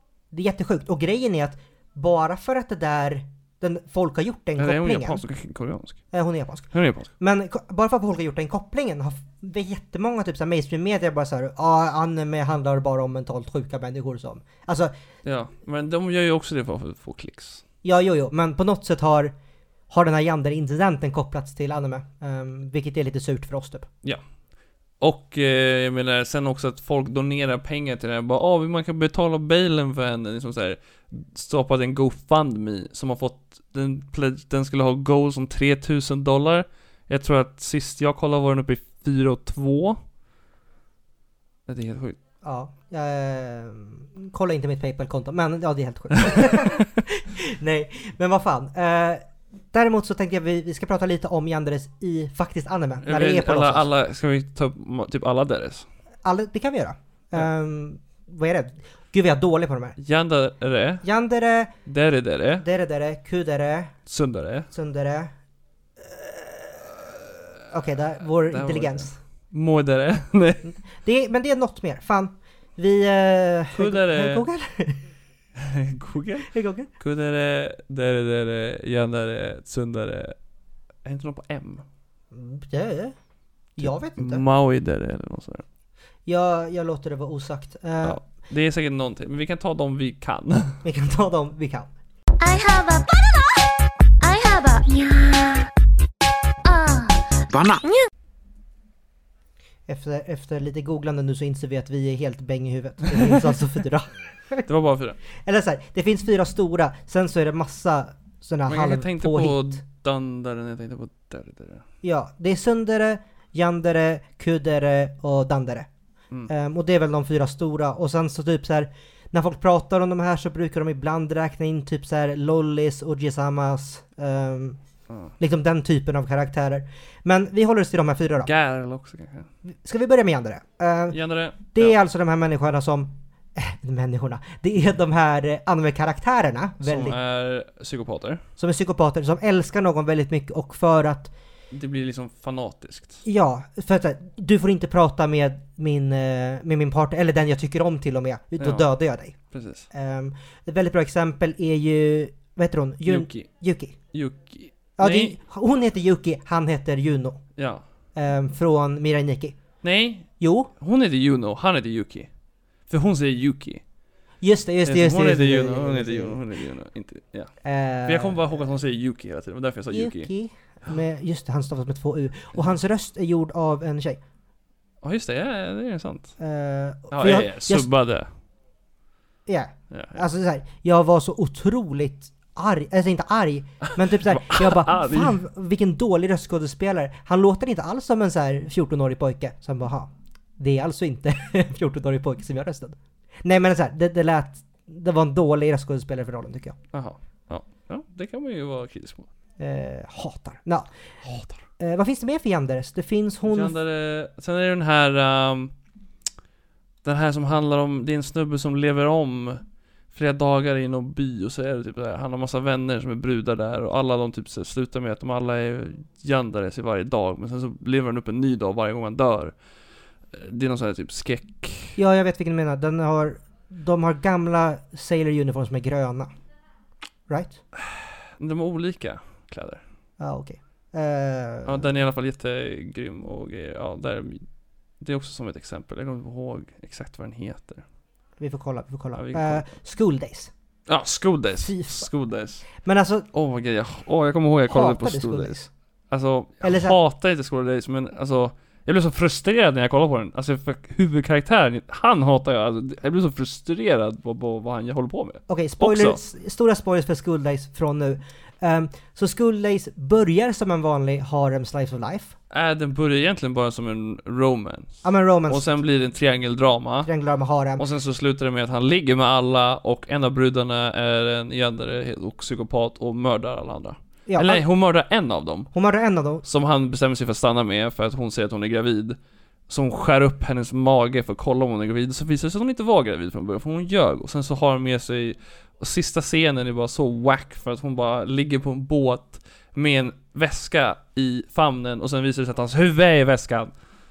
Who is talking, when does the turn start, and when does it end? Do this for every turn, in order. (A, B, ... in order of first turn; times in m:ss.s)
0:00.3-0:05.2 A
0:04.6-0:06.0 B
0:06.1-0:14.9 A
0:06.7-0:07.1 B
0:15.2-0:17.6 B
0:17.8-0:19.3 A
0:19.9-0:23.9 A
0:25.0-0:40.0 B
0:41.7-0:42.2 B
0:42.4-0:53.9 A
0:53.0-0:55.9 B
0:56.2-1:00.0 A
1:00.0-1:01.0 B
1:01.0-1:01.7 A
1:01.9-1:02.6 B
1:02.6-1:04.0 A
1:04.1-1:04.7 B
1:04.7-1:05.3 A
1:06.0-1:09.2 A
1:08.5-1:10.7 B
1:10.7-1:15.1 A
1:13.7-1:14.5 B
1:15.6-1:20.4 B
1:16.5-1:16.9 A
1:21.0-1:21.8 B
1:22.3-1:23.2 A
1:23.8-1:24.4 A
1:23.8-1:25.6 B
1:26.3-1:28.2 A
1:28.0-1:30.8 B
1:30.8-1:31.9 A
1:32.4-1:33.6 C
1:34.2-1:35.7 C
1:36.6-1:38.0 C
1:39.9-1:44.7 A
1:44.7-1:45.2 B
1:45.4-1:49.8 A
1:48.7-1:51.8 B
1:52.0-1:55.9 A
1:56.5-2:04.8 A
2:05.4-2:08.5 A
2:08.5-2:09.5 B
2:09.8-2:17.2 A
2:11.1-2:12.0 B
2:16.8-2:18.4 B
2:18.6-2:21.3 A
2:21.7-2:23.2 B
2:23.2-2:29.4 A
2:28.6-2:28.9 B
2:29.5-2:29.9 B
2:29.9-2:34.0 A
2:33.0-2:33.5 B
2:34.1-2:35.4 B
2:35.0-2:37.4 A
2:37.6-2:37.8 B
2:38.2-2:39.6 A
2:39.8-2:42.3 B
2:40.4-2:40.7 A
2:42.9-2:43.8 B
2:44.4-2:46.4 A
2:44.8-2:47.5 B
2:47.6-2:48.4 A
2:48.1-2:50.3 B
2:49.9-2:54.2 A
2:55.0-2:56.3 B
2:56.4-2:57.9 A
2:57.1-2:58.3 B
2:59.5-3:16.8 A
2:59.9-3:00.2 B
3:04.0-3:05.4 B
3:16.9-3:19.3 B
3:19.6-3:20.9 A
3:21.2-3:21.6 B
3:21.8-3:23.8 A
3:23.5-3:25.7 B
3:27.0-3:39.6 B
3:40.3-3:42.0 B
3:42.0-3:46.3 A
3:47.3-3:47.6 A
3:47.8-3:49.8 B
3:50.2-3:51.9 A
3:51.6-3:54.5 B
3:55.0-3:57.8 B
3:58.4-4:00.5 A
3:59.1-3:59.6 B
4:00.9-4:02.7 B
4:01.6-4:02.1 A
4:02.8-4:03.3 A
4:03.3-4:16.2 B
4:04.7-4:05.7 A
4:06.6-4:07.0 A
4:15.5-4:22.3 A
4:22.5-4:27.1 B
4:25.0-4:25.7 A
4:27.0-4:27.8 A
4:27.8-4:35.7 B
4:34.3-4:34.6 A
4:35.7-4:36.4 A
4:36.4-4:39.2 B
4:39.7-4:53.7 B